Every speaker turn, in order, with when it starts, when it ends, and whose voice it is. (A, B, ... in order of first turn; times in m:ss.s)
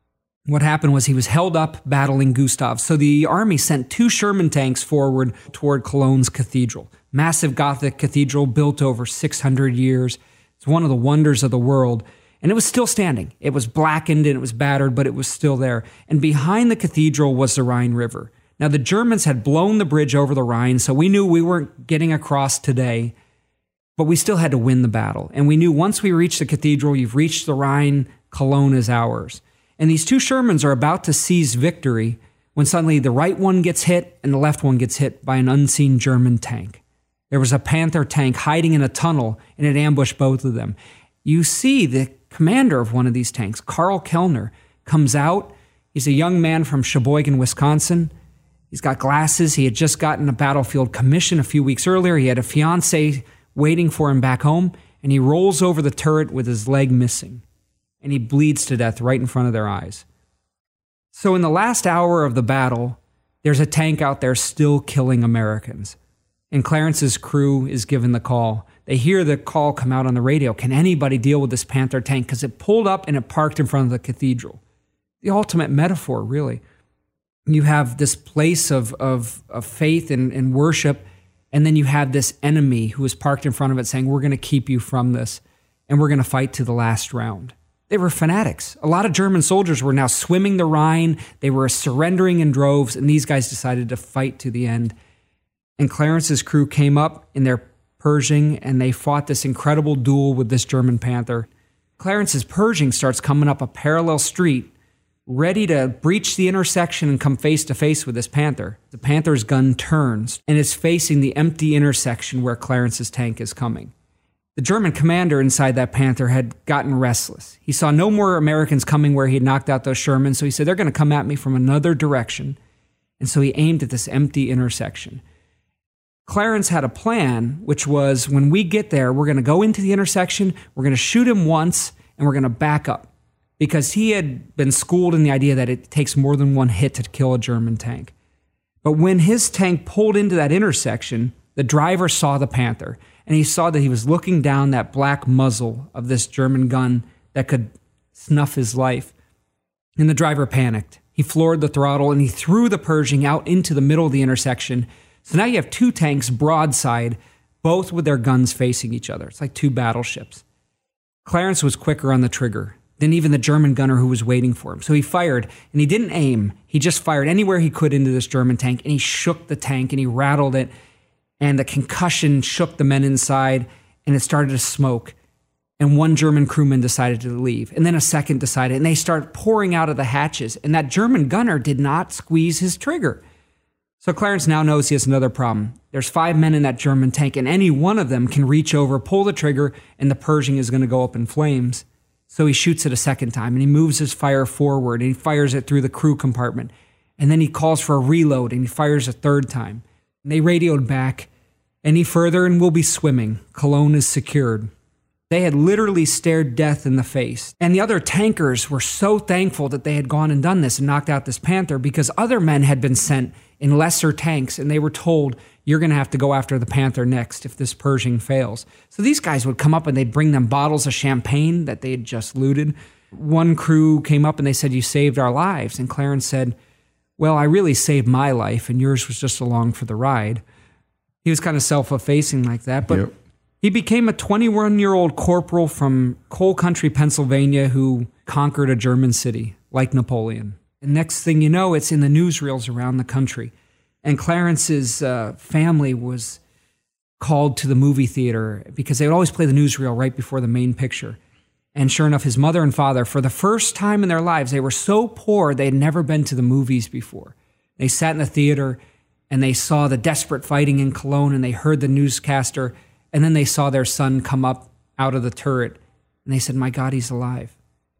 0:00.5-0:23.1 A
0:24.0-0:36.8 A
0:37.3-0:48.1 A
0:48.7-0:57.4 A
0:58.0-1:00.0 A
1:01.1-1:06.0 A
1:06.5-1:14.6 A
1:15.2-1:16.6 A
1:17.5-1:35.0 A
1:35.8-1:44.7 A
1:45.3-1:53.9 A
1:54.6-2:02.6 A
2:03.2-2:05.2 A
2:06.3-2:18.1 A
2:18.8-2:29.1 A
2:30.0-2:40.4 A
2:41.2-2:50.7 A
2:51.4-2:55.2 A
2:55.8-3:03.2 A
3:04.0-3:21.3 A
3:21.8-3:24.7 A
3:25.3-3:46.6 A
3:47.2-3:50.4 A
3:51.2-4:03.5 A
4:04.0-4:06.4 A
4:07.2-4:11.2 A
4:11.8-4:27.6 A